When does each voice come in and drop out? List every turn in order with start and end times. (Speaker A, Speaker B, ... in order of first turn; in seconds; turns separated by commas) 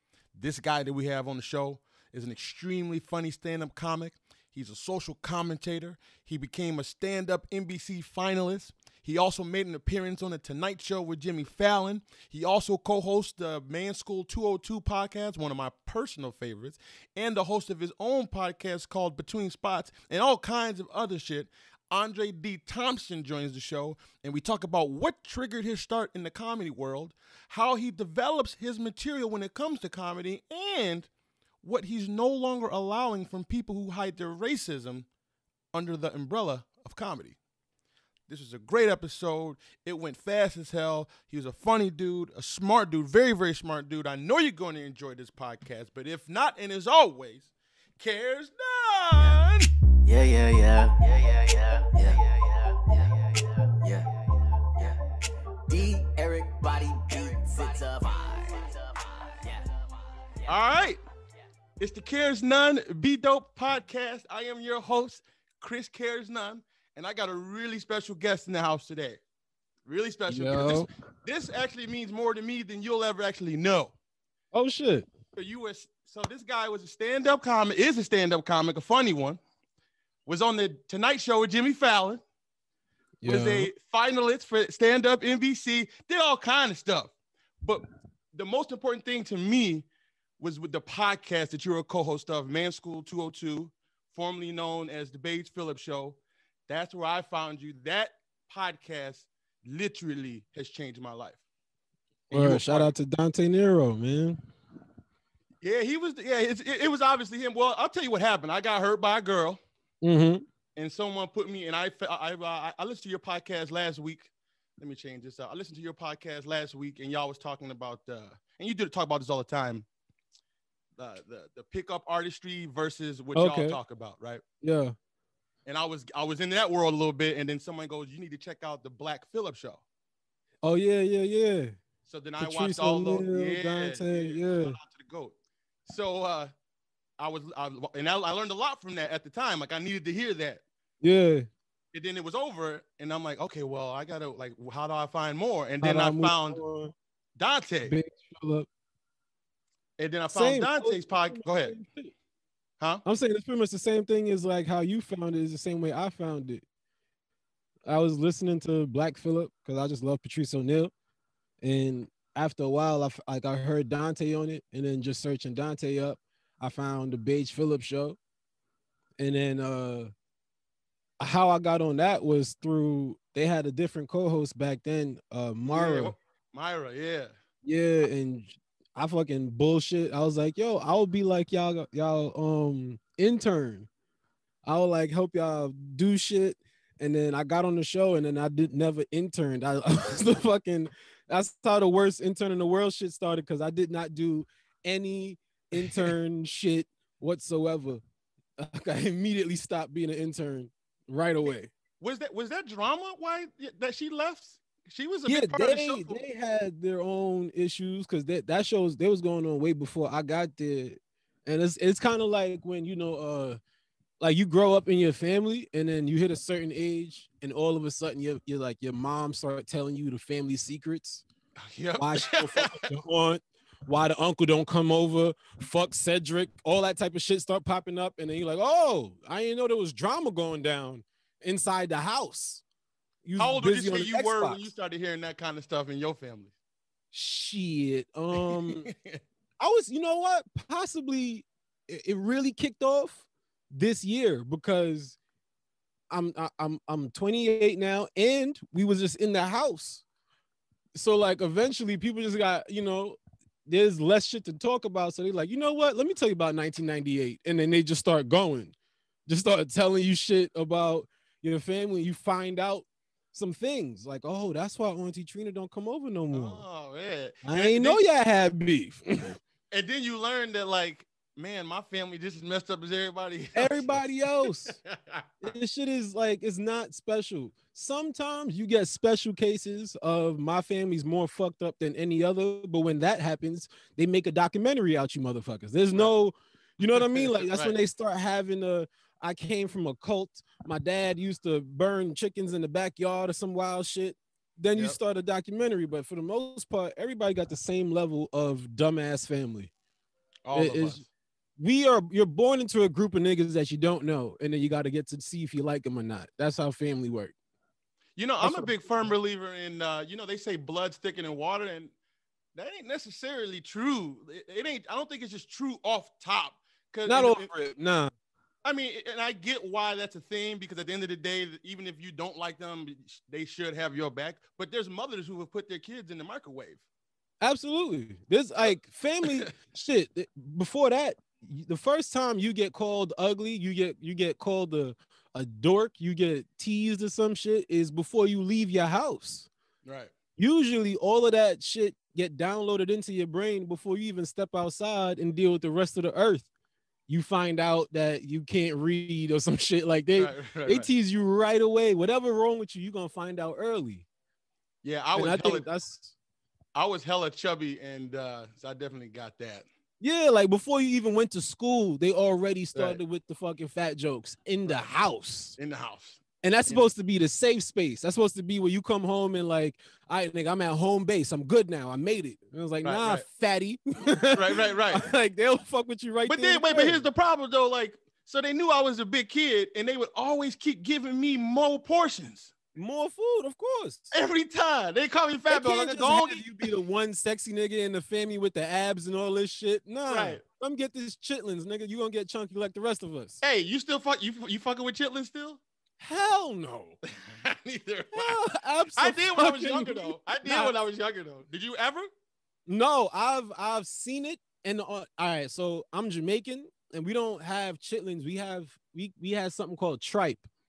Speaker A: 0.3-31.1, Speaker A: 31.6-35.0, Speaker A: 35.7-37.4, Speaker A: 38.3-49.7, Speaker B: 50.0-55.0, Speaker B: 55.7-60.5, Speaker A: 60.5-61.0, Speaker A: 61.8-69.2, Speaker A: 69.8-73.9, Speaker C: 70.3-70.9, Speaker C: 74.5-75.1, Speaker A: 75.4-79.4, Speaker A: 80.2-82.2, Speaker C: 83.2-83.7, Speaker A: 83.2-87.1, Speaker A: 87.6-89.9, Speaker A: 90.4-101.4, Speaker A: 102.3-102.9, Speaker C: 102.3-104.4, Speaker A: 105.6-109.6, Speaker C: 110.0-110.4, Speaker A: 110.8-119.9, Speaker A: 121.0-124.4, Speaker C: 123.3-123.8, Speaker C: 124.6-124.9, Speaker A: 125.7-129.8, Speaker C: 130.6-131.8, Speaker A: 132.0-135.3, Speaker C: 132.4-134.8, Speaker A: 135.8-136.5, Speaker A: 137.2-140.6, Speaker C: 141.0-141.5, Speaker A: 141.9-146.6, Speaker C: 145.8-146.9, Speaker A: 147.4-148.0, Speaker C: 147.8-148.7, Speaker A: 150.0-151.8, Speaker C: 150.3-152.1, Speaker C: 153.0-156.6, Speaker C: 157.8-160.9, Speaker C: 161.6-168.2, Speaker C: 169.2-170.1, Speaker C: 171.2-176.1, Speaker A: 175.7-177.3, Speaker C: 177.6-183.9, Speaker C: 184.7-198.0, Speaker A: 195.8-196.1, Speaker C: 198.6-201.7, Speaker A: 202.0-206.2, Speaker C: 205.3-213.6, Speaker C: 214.2-221.2, Speaker A: 221.6-222.9, Speaker C: 222.0-232.6, Speaker C: 233.2-234.7, Speaker A: 233.3-236.5, Speaker C: 237.1-238.9, Speaker A: 238.4-239.2, Speaker C: 239.6-245.2, Speaker C: 246.1-250.0, Speaker C: 250.9-258.7, Speaker C: 259.3-266.6, Speaker A: 266.3-268.0, Speaker C: 267.4-269.4, Speaker A: 269.7-275.3, Speaker C: 273.5-274.8, Speaker C: 275.4-299.7, Speaker A: 287.0-287.8, Speaker A: 300.4-301.0, Speaker C: 300.5-301.0, Speaker C: 301.6-307.3, Speaker A: 308.2-311.9, Speaker C: 308.4-308.7, Speaker A: 312.5-317.5, Speaker C: 317.1-318.1, Speaker A: 318.6-326.8, Speaker C: 327.4-339.5, Speaker A: 339.8-340.1, Speaker C: 340.4-346.5, Speaker C: 347.1-354.0, Speaker A: 350.2-350.9, Speaker A: 354.8-355.6, Speaker C: 355.1-356.1, Speaker A: 356.7-359.6, Speaker C: 360.0-365.6, Speaker A: 362.7-363.0, Speaker A: 365.6-366.9, Speaker C: 366.4-377.0, Speaker A: 372.8-373.2, Speaker A: 374.3-375.1, Speaker A: 376.2-382.5, Speaker C: 382.7-384.1, Speaker A: 384.1-386.7, Speaker C: 385.5-393.4, Speaker A: 390.1-390.4, Speaker A: 393.4-395.6, Speaker C: 396.0-396.9, Speaker A: 397.1-398.4, Speaker C: 398.1-400.7, Speaker A: 398.9-402.1, Speaker C: 402.7-410.4